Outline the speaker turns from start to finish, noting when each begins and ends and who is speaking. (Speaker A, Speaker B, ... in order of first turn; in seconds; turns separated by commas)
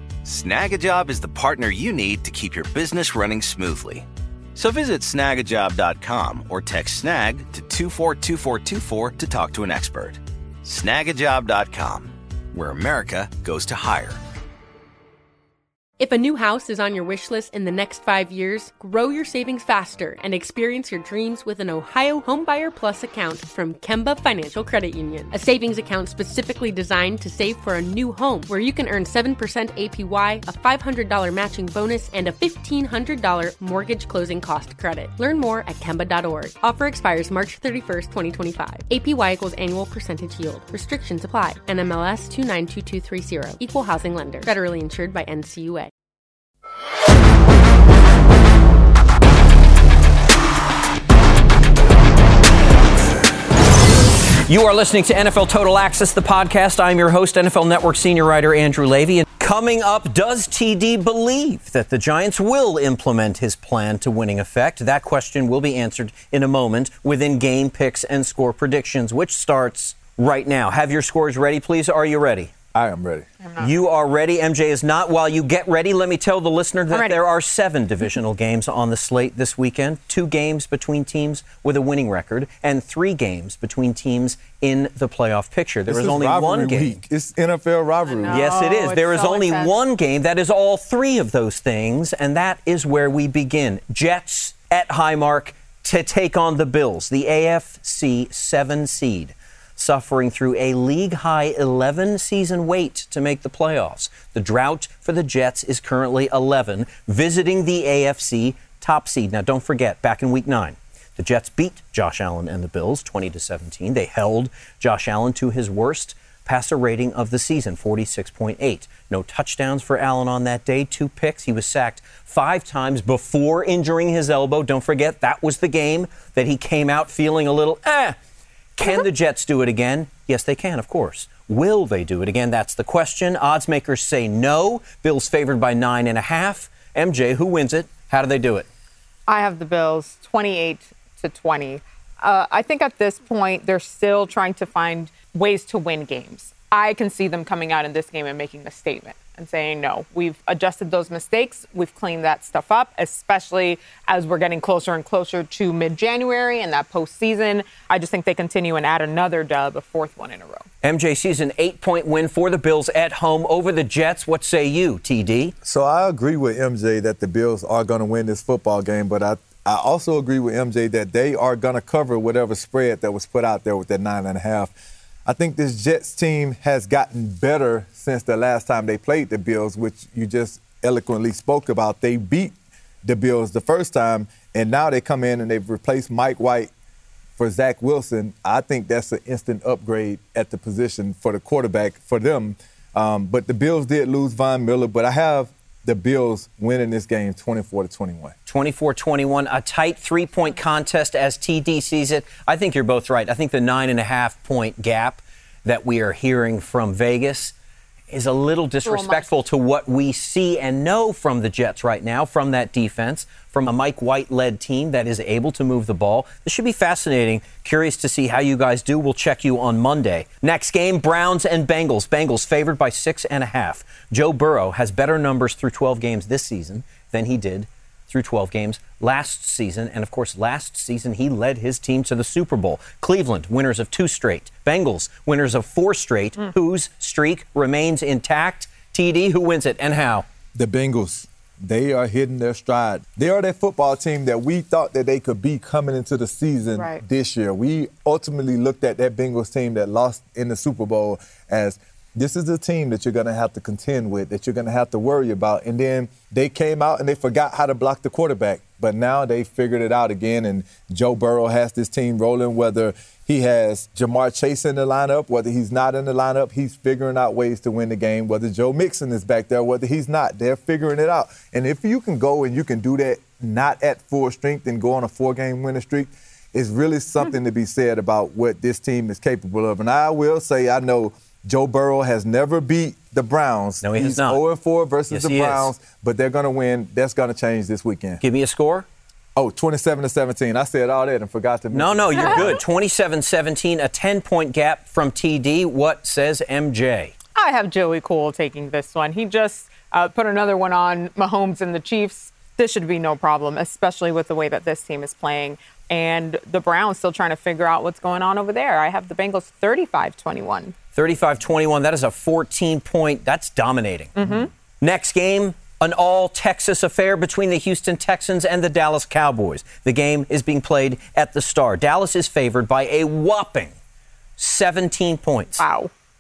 Speaker A: 0.2-14.2, Speaker B: 16.0-45.9, Speaker C: 54.5-72.5, Speaker D: 72.7-73.3, Speaker E: 73.4-73.8, Speaker C: 73.6-87.0, Speaker E: 76.9-77.2, Speaker D: 85.9-88.5, Speaker E: 88.0-89.8, Speaker C: 88.3-128.2, Speaker C: 128.8-138.7, Speaker E: 139.3-160.7, Speaker C: 160.8-165.6, Speaker D: 165.6-174.7, Speaker D: 175.3-186.7, Speaker D: 187.4-198.4, Speaker C: 198.5-207.5, Speaker C: 208.1-240.3, Speaker E: 208.8-209.4, Speaker D: 240.6-288.2, Speaker E: 246.8-247.0, Speaker C: 283.8-284.4, Speaker C: 285.1-285.7, Speaker C: 288.2-288.9, Speaker D: 289.4-292.6, Speaker C: 291.7-297.1, Speaker E: 297.4-310.7, Speaker C: 310.9-314.3, Speaker E: 314.2-314.5, Speaker C: 314.8-323.8, Speaker C: 324.4-325.6, Speaker E: 325.6-325.9